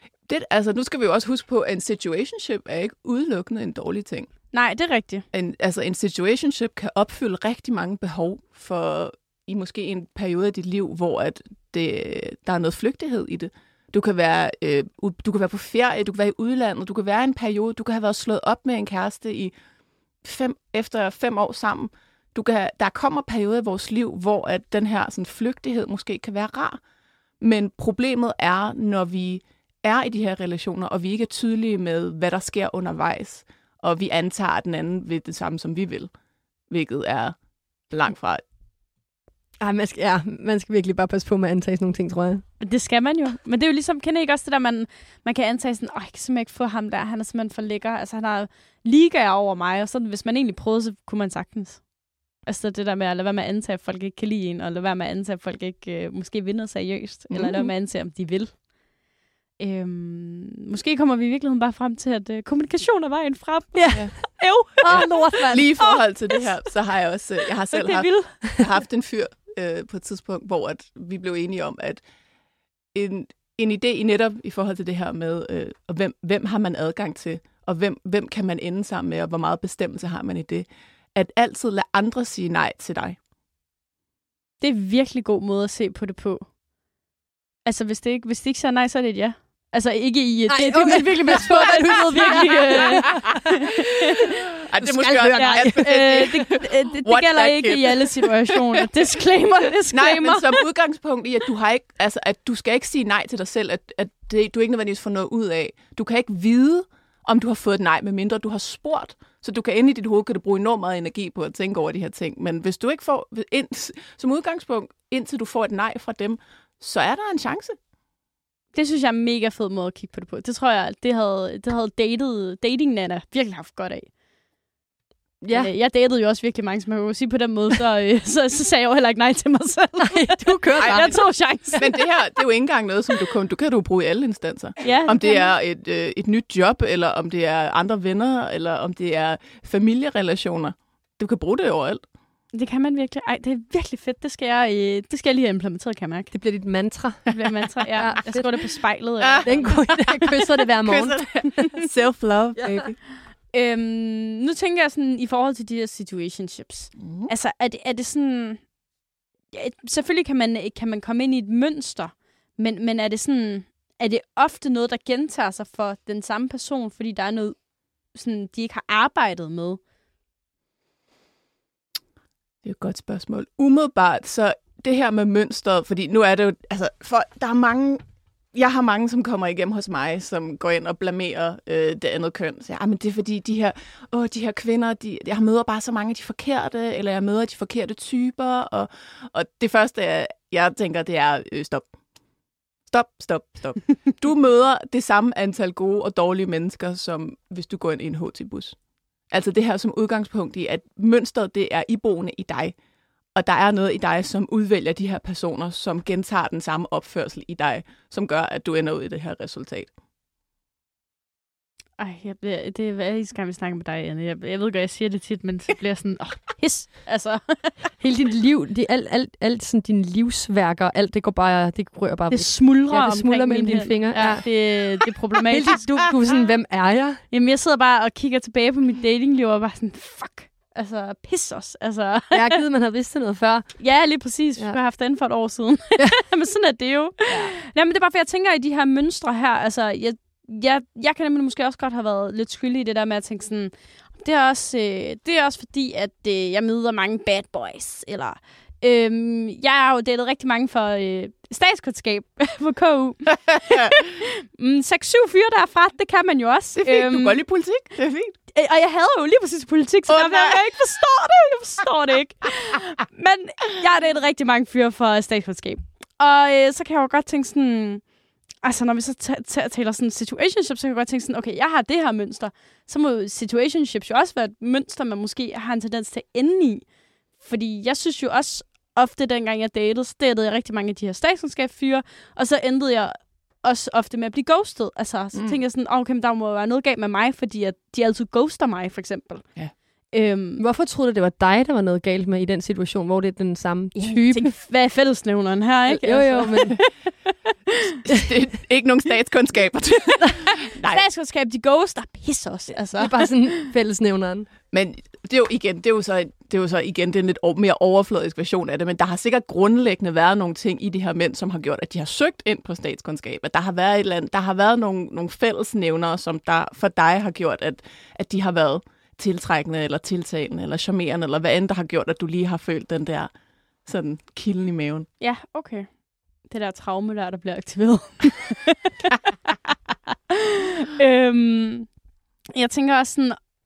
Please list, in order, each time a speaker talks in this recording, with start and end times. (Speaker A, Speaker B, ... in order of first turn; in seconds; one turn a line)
Speaker A: 0.3-4.3
Speaker B: 4.5-5.3
Speaker A: 5.3-19.5
Speaker A: 20.2-26.8
Speaker A: 27.4-36.1
Speaker A: 36.7-37.4
Speaker A: 37.9-38.4
Speaker C: 39.6-42.4
Speaker B: 42.6-51.9
Speaker B: 52.4-58.6
Speaker A: 57.3-57.7
Speaker B: 59.6-66.5
Speaker C: 63.7-65.8
Speaker A: 64.8-72.0
Speaker B: 67.7-68.5
Speaker A: 72.9-83.2
Speaker B: 84.6-86.5
Speaker B: 87.7-94.2
Speaker C: 90.5-93.6
Speaker A: 94.6-98.3
Speaker C: 94.8-96.3
Speaker B: 95.3-100.6
Speaker A: 99.9-117.8
Speaker B: 118.7-124.1
Speaker C: 125.4-125.7
Speaker B: 125.5-132.0
Speaker C: 130.0-131.2
Speaker A: 130.8-142.0
Speaker B: 134.8-135.5
Speaker B: 142.5-146.3
Speaker C: 146.3-147.3
Speaker B: 147.3-150.4
Speaker C: 147.9-148.5
Speaker A: 149.2-150.2
Speaker C: 149.4-151.7
Speaker A: 150.8-153.0
Speaker C: 152.6-152.9
Speaker B: 153.5-158.6
Speaker A: 157.0-157.3
Speaker B: 159.5-167.6
Speaker B: 168.1-169.8
Speaker A: 172.6-178.0
Speaker A: 178.5-191.9
Speaker A: 192.9-198.8
Speaker A: 199.3-202.7
Speaker A: 203.3-209.9
Speaker B: 212.0-217.8
Speaker C: 218.0-224.5
Speaker B: 222.3-226.1
Speaker C: 225.5-227.2
Speaker B: 227.3-232.6
Speaker C: 232.3-233.8
Speaker B: 233.8-257.4
Speaker C: 237.3-237.5
Speaker A: 256.8-258.4
Speaker B: 258.5-268.1
Speaker A: 260.1-260.7
Speaker B: 268.6-289.4
Speaker A: 285.3-285.6
Speaker B: 290.1-290.6
Speaker C: 290.6-294.5
Speaker B: 293.9-297.9
Speaker C: 295.9-296.8
Speaker A: 298.1-301.0
Speaker B: 300.5-303.7
Speaker C: 302.9-304.5
Speaker A: 304.7-323.3
Speaker A: 323.9-325.1
Speaker B: 325.2-325.9
Speaker B: 326.5-328.9
Speaker B: 330.1-331.9
Speaker B: 332.6-333.4